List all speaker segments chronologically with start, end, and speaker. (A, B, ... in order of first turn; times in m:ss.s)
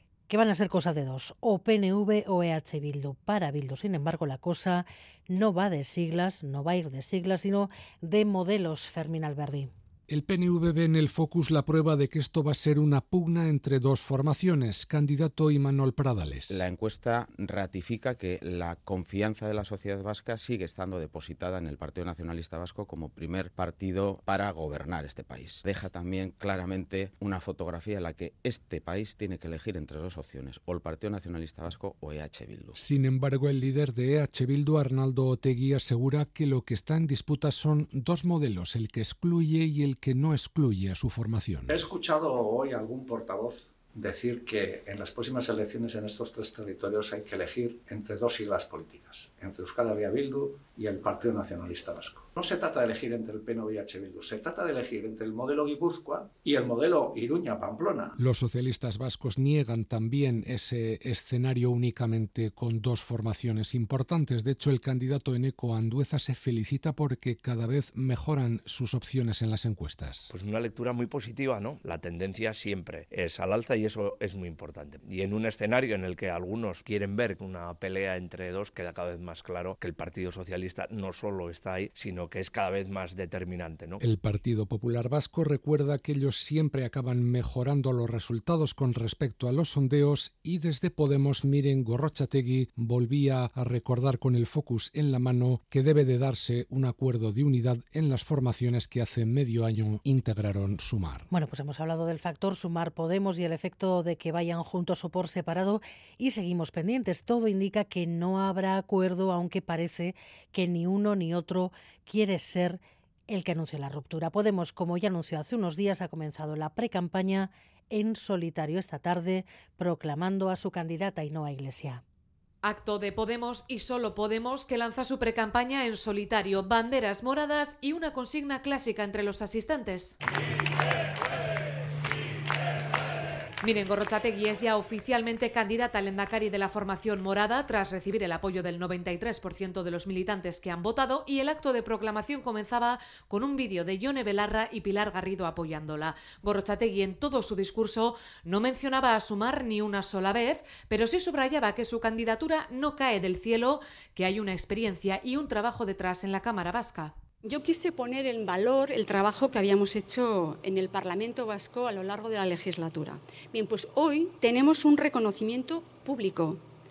0:00.3-0:09.7 A
0:10.1-0:16.6 B
0:16.5-0:32.8 C
0:32.8-0:41.7 B
0:41.7-0:58.2 D
0:58.2-1:10.3 B
1:10.3-1:24.0 E
1:24.0-1:41.3 B
1:41.3-2:02.0 A
2:02.6-2:10.2 F
2:13.6-2:37.1 F
2:37.4-2:46.6 G